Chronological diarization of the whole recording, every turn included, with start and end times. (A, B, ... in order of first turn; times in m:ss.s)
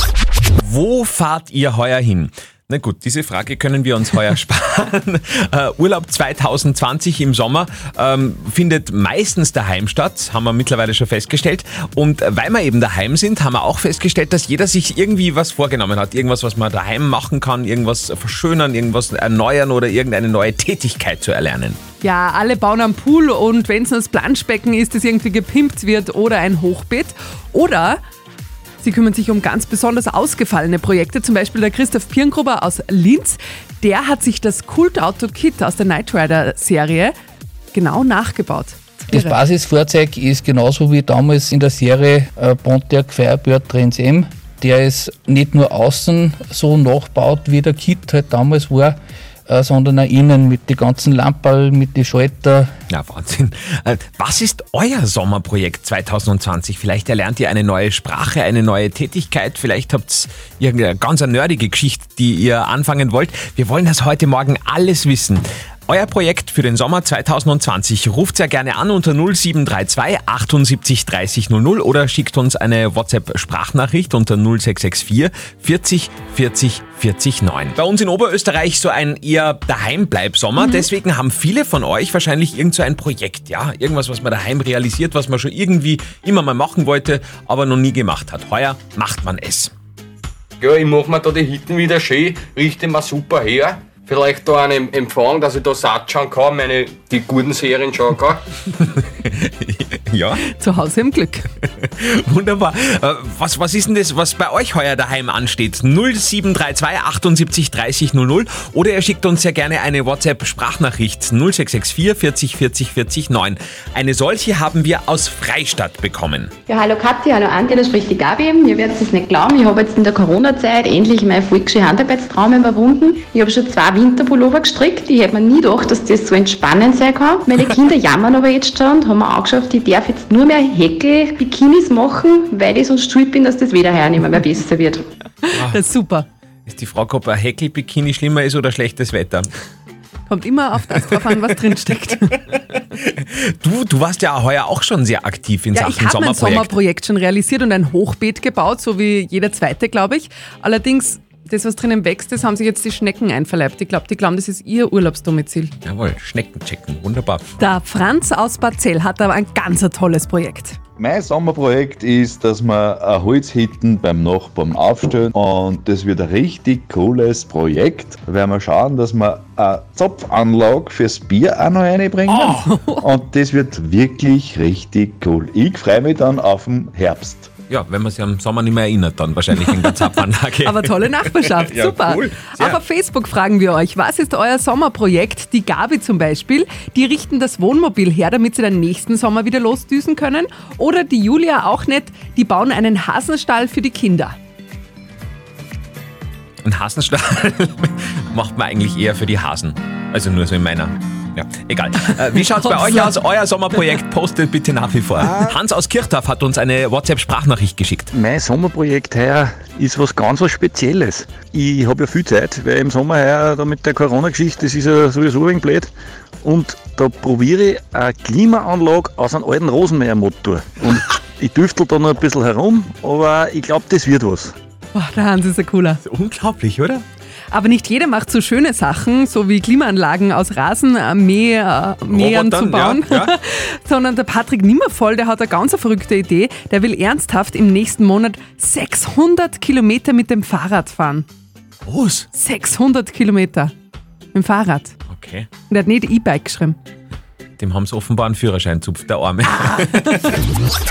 0:00.6-0:21.8 A
0:22.0-0:28.0 B
0:28.8-0:37.1 B
0:37.7-0:39.4 B
0:39.1-0:52.7 C
0:52.9-1:29.7 A
1:20.6-1:20.9 B
1:30.6-1:38.4 D
1:38.8-1:40.4 A
1:40.5-1:41.5 B
1:41.8-1:56.5 A
1:56.7-2:15.1 E
2:15.5-2:16.3 B
2:16.7-2:19.5 A
2:20.3-2:22.4 B
2:23.0-2:26.7 A
2:25.7-2:35.7 B
2:35.8-2:37.4 A
2:37.6-2:40.8 B
2:41.0-2:57.5 F
2:52.3-2:52.7 A
2:52.5-2:53.0 B
2:57.7-3:02.8 A
2:59.7-3:00.1 B
3:00.6-3:14.4 B
3:16.6-3:28.1 A
3:22.7-3:23.1 B
3:28.1-3:35.9 G
3:36.4-3:44.5 G
3:44.9-3:46.0 B
3:46.0-3:47.0 A
3:47.5-4:01.3 B
3:52.1-3:53.3 A
4:01.9-4:02.3 A
4:02.3-4:03.7 B
4:04.3-4:05.0 B
4:05.1-4:05.5 A
4:05.7-4:06.8 B
4:07.6-4:10.4 A